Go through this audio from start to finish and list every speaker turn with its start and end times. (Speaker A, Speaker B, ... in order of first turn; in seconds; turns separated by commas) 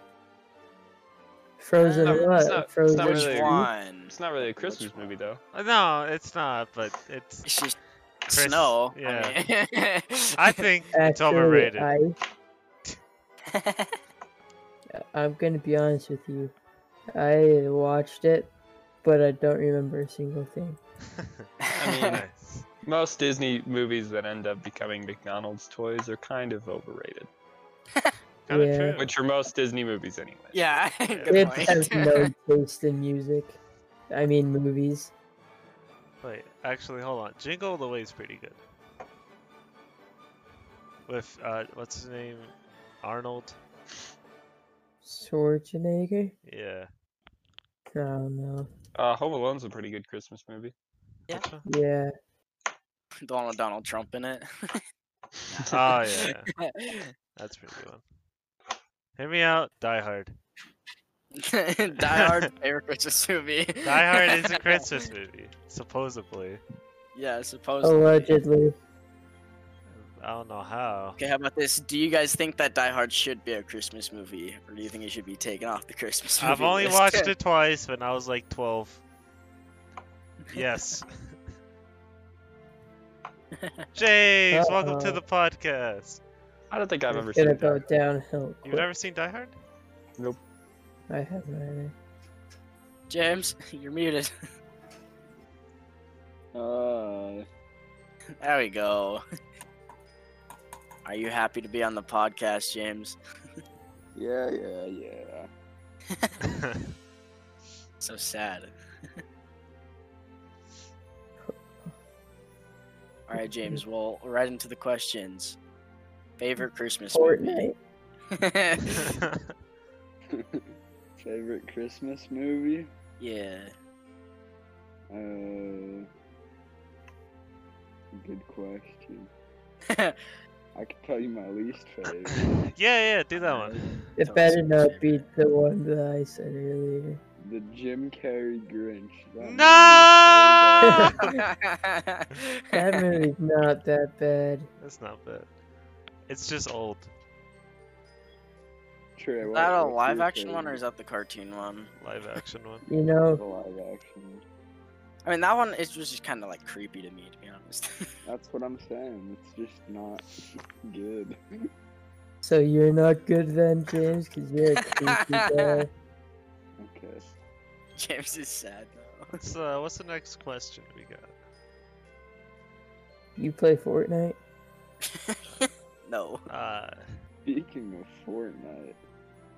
Speaker A: 1.6-3.7, Speaker B: 1.8-2.2, Speaker C: 2.0-5.4, Speaker B: 3.0-5.1, Speaker D: 5.5-7.5, Speaker B: 7.5-10.6, Speaker D: 8.3-9.4, Speaker D: 10.4-11.9, Speaker A: 10.9-12.1, Speaker B: 13.5-13.9, Speaker A: 15.0-16.5, Speaker A: 17.1-18.5, Speaker A: 19.0-20.8, Speaker B: 21.6-22.1, Speaker C: 21.8-22.2, Speaker D: 22.1-22.6, Speaker C: 22.8-27.3, Speaker D: 28.5-29.1, Speaker A: 28.5-29.0, Speaker C: 29.0-30.6, Speaker B: 30.5-32.3, Speaker D: 31.1-31.7, Speaker A: 31.3-33.6, Speaker A: 34.1-35.1, Speaker D: 36.2-38.6, Speaker D: 41.1-43.6, Speaker A: 45.0-46.3, Speaker D: 46.5-46.9, Speaker A: 47.9-48.7, Speaker C: 49.0-50.7, Speaker D: 51.3-51.6, Speaker A: 51.6-52.1, Speaker B: 53.2-54.8, Speaker B: 55.5-57.1, Speaker D: 55.7-56.5, Speaker D: 57.4-58.0, Speaker D: 59.2-60.4, Speaker B: 61.4-64.8, Speaker D: 63.8-66.6, Speaker B: 67.1-68.4, Speaker A: 67.8-68.8, Speaker D: 70.0-71.2, Speaker B: 71.2-77.3, Speaker D: 76.4-79.0, Speaker D: 80.5-81.4, Speaker B: 83.6-83.8, Speaker D: 83.9-86.2, Speaker A: 84.5-85.2, Speaker C: 86.7-87.8, Speaker A: 87.1-88.9, Speaker D: 88.6-89.5, Speaker A: 91.1-91.9, Speaker B: 93.1-94.3, Speaker E: 96.5-97.4, Speaker B: 98.4-99.2, Speaker B: 101.0-103.2, Speaker E: 104.2-105.5, Speaker B: 108.0-108.7, Speaker A: 111.4-111.9, Speaker B: 113.3-115.6, Speaker A: 113.3-113.8, Speaker B: 116.4-117.6, Speaker A: 117.1-117.8, Speaker B: 118.3-119.1, Speaker E: 120.3-120.7, Speaker E: 121.2-122.9, Speaker B: 123.2-123.7, Speaker E: 125.1-126.1, Speaker E: 128.1-129.3, Speaker B: 129.9-130.2, Speaker E: 130.7-132.6, Speaker D: 132.7-134.1, Speaker B: 133.3-135.2, Speaker A: 134.2-137.2, Speaker E: 137.4-141.2, Speaker D: 139.4-141.3, Speaker A: 140.8-141.1, Speaker B: 141.2-142.6, Speaker A: 142.7-144.7, Speaker D: 144.8-145.5, Speaker D: 146.3-147.1, Speaker E: 149.2-150.8, Speaker B: 149.4-151.9, Speaker D: 152.0-152.8, Speaker A: 152.9-153.4, Speaker E: 153.3-154.4, Speaker B: 155.2-157.9, Speaker E: 158.2-160.3, Speaker E: 160.8-161.4, Speaker A: 162.4-165.9, Speaker B: 165.0-165.7, Speaker E: 166.8-167.2, Speaker B: 167.9-169.3, Speaker D: 169.3-171.3, Speaker A: 173.4-174.4, Speaker B: 175.1-176.4, Speaker D: 176.5-177.0, Speaker E: 177.4-179.0